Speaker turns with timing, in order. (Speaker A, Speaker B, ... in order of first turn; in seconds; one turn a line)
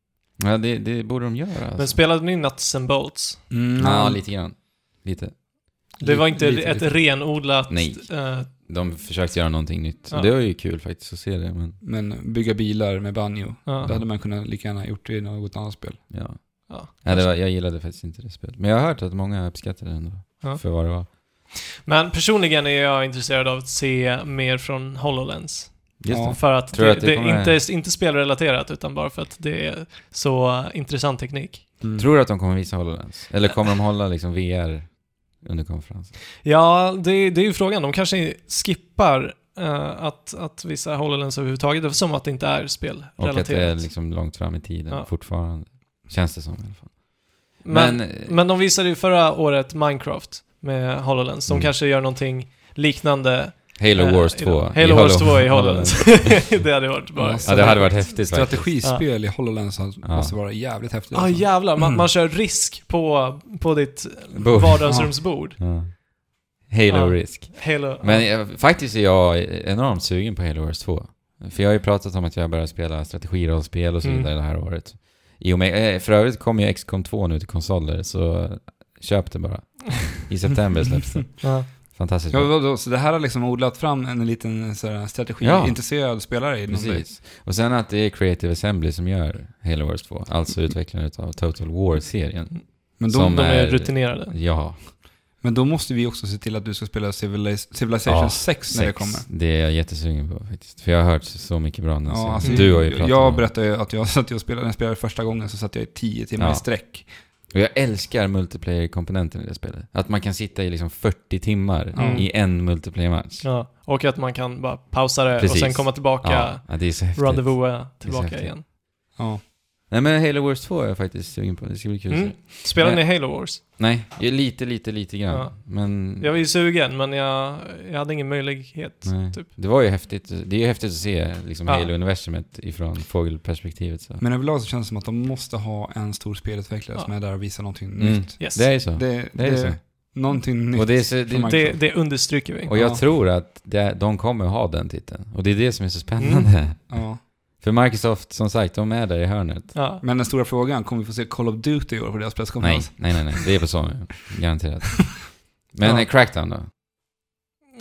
Speaker A: 0.4-2.0
Speaker B: 1.8-3.5
Speaker C: 3.5-4.2
Speaker A: 3.8-6.0
Speaker C: 6.0-6.9
Speaker B: 6.0-8.5
Speaker A: 6.9-11.8
Speaker B: 10.1-10.3
Speaker C: 11.8-16.4
Speaker B: 13.7-13.9
Speaker A: 16.1-21.1
Speaker B: 16.7-17.3
Speaker B: 20.4-31.7
Speaker A: 26.0-27.6
Speaker C: 26.1-26.4
Speaker C: 31.8-32.1
Speaker A: 31.9-36.1
Speaker B: 36.4-45.1
Speaker A: 43.2-48.4
Speaker B: 47.6-58.1
Speaker A: 51.5-51.7
Speaker A: 53.8-56.7
Speaker C: 57.1-62.0
Speaker A: 57.4-58.9
Speaker B: 58.8-59.0
Speaker A: 60.0-60.4
Speaker B: 61.1-66.0
Speaker A: 64.3-82.5
Speaker C: 64.8-65.1
Speaker B: 66.9-68.3
Speaker B: 74.0-74.3
Speaker B: 81.4-81.7
Speaker C: 82.3-87.0
Speaker A: 85.4-94.9
Speaker B: 92.5-94.3
Speaker C: 93.0-93.4
Speaker C: 95.4-99.3
Speaker A: 98.0-103.5
Speaker C: 102.1-107.1
Speaker B: 102.4-102.7
Speaker A: 106.4-113.5
Speaker C: 111.9-112.3
Speaker B: 112.0-112.5
Speaker B: 113.4-118.6
Speaker A: 115.4-118.7
Speaker C: 119.2-119.4
Speaker A: 119.9-126.4
Speaker B: 122.1-123.6
Speaker B: 125.3-129.5
Speaker A: 129.0-134.2
Speaker B: 131.7-131.9
Speaker C: 134.2-141.8
Speaker A: 138.0-149.8
Speaker B: 138.4-138.7
Speaker B: 141.4-142.7
Speaker C: 142.7-143.0
Speaker B: 146.2-146.5
Speaker C: 146.9-147.2
Speaker B: 149.7-150.0
Speaker C: 150.0-153.6
Speaker A: 152.6-156.7
Speaker C: 155.8-156.1